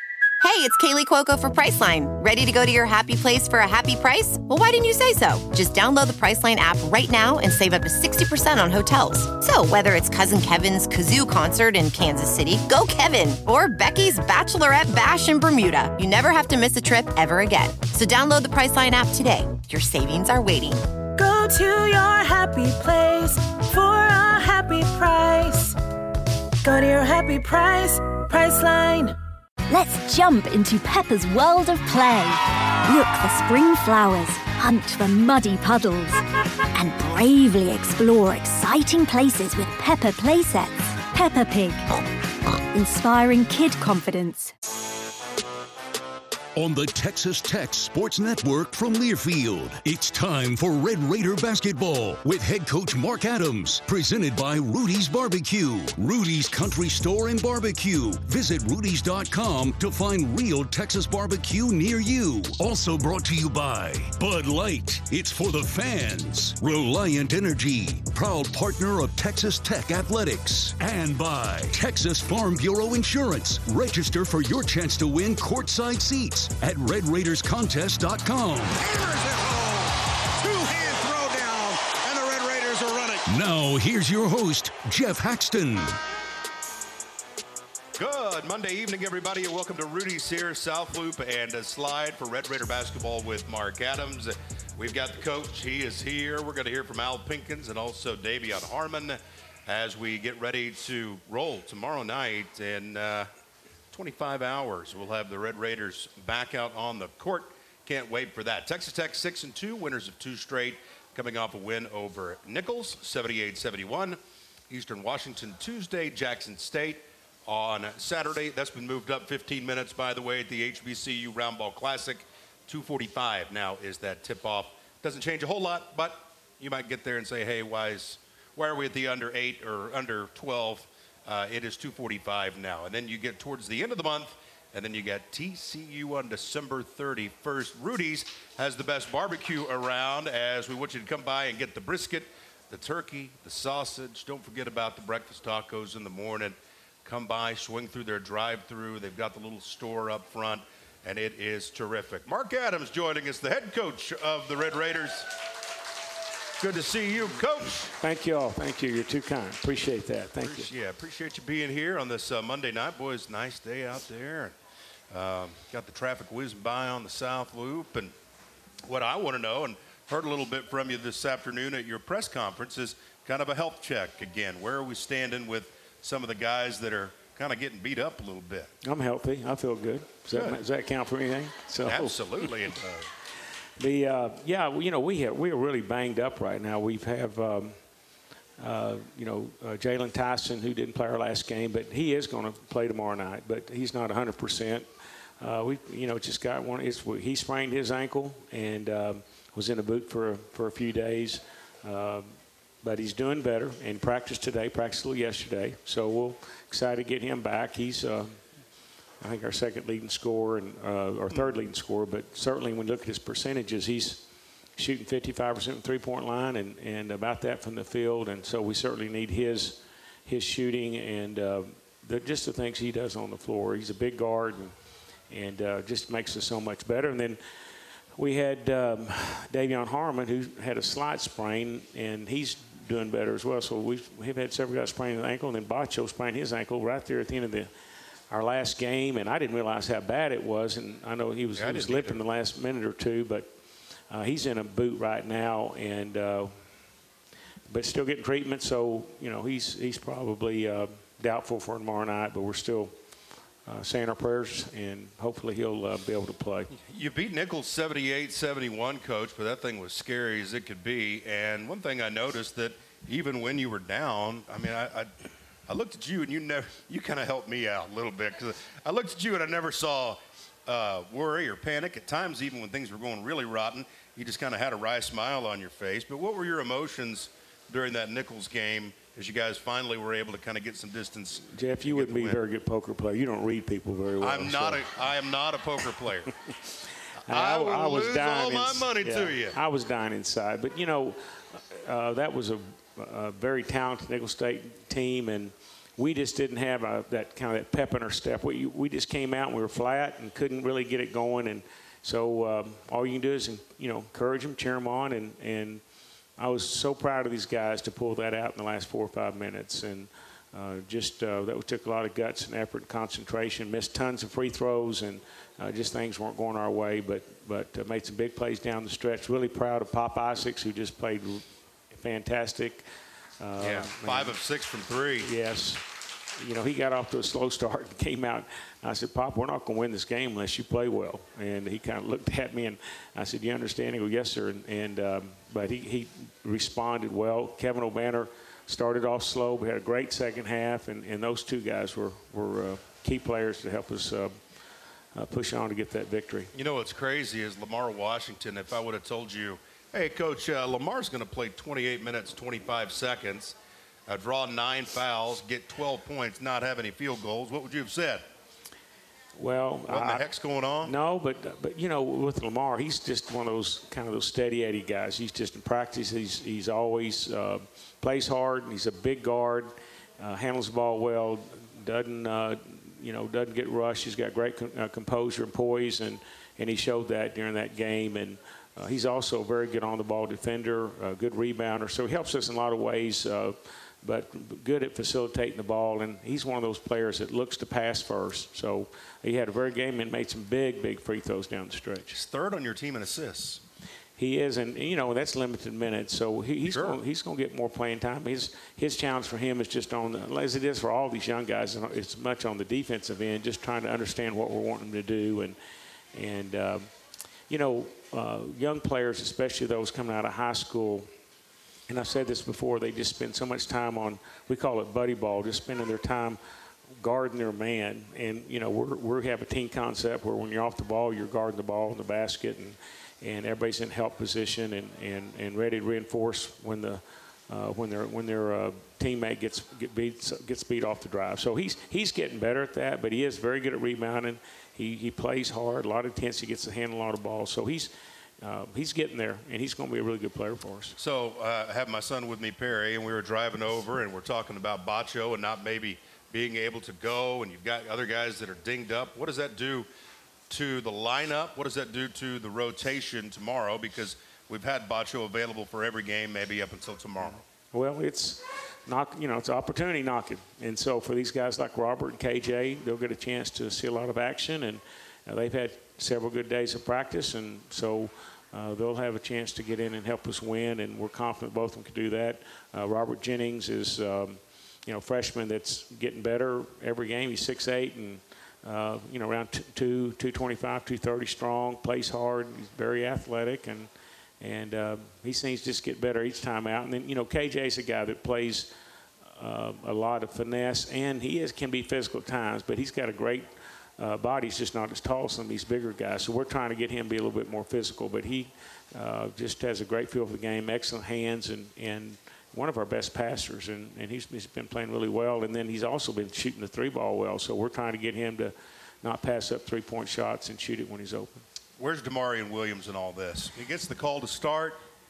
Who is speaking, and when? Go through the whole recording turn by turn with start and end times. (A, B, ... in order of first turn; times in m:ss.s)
0:00.4-0:20.8 A
0:21.2-0:25.7 B
0:26.6-0:29.2 B
0:29.7-0:36.2 C
0:36.8-0:41.8 C
0:42.7-0:44.5 C
0:46.6-1:19.0 D
1:19.1-1:19.7 E
1:20.4-1:23.2 E
1:20.7-1:21.1 D
1:23.3-1:26.0 D
1:28.0-1:43.3 E
1:43.9-2:35.3 E
2:36.6-2:37.9 E
2:37.9-2:40.7 F
2:40.4-2:44.5 E
2:45.1-2:48.1 E
2:48.8-2:58.7 E
2:58.8-3:02.5 F
3:00.3-3:00.6 E
3:01.8-3:03.1 E
3:03.8-3:07.8 F
3:08.6-3:14.9 F
3:15.4-3:28.4 F
3:29.2-3:34.2 F
3:34.8-3:44.7 F
3:45.3-3:47.4 F
3:48.2-3:57.7 F
3:58.3-4:03.5 F
4:01.6-4:02.2 E
4:04.1-4:06.6 F
4:07.7-4:12.9 F
4:13.6-4:16.7 F
4:16.7-4:25.1 E
4:25.7-4:42.4 E
4:41.5-4:44.8 F
4:44.2-4:46.3 E
4:47.3-5:05.8 F
4:47.3-4:49.6 E
5:06.4-5:22.8 F
5:23.4-5:24.3 F
5:23.6-5:25.3 E
5:25.2-5:25.8 F
5:26.4-5:44.3 F
5:45.1-5:46.5 F
5:46.5-5:53.5 E
5:54.1-5:58.2 E
5:59.4-6:00.2 F
5:59.9-6:00.9 E
6:00.8-6:32.2 F
6:32.1-6:33.6 E
6:34.2-6:45.6 F
6:36.6-6:37.0 E
6:46.1-6:46.9 F
6:47.5-6:51.1 F
6:51.9-6:56.4 F
6:57.0-7:21.0 F
7:21.0-7:29.9 E
7:30.5-7:37.4 E
7:37.7-8:03.9 F
8:04.4-8:08.7 F
8:09.3-8:31.4 F
8:31.8-8:34.8 E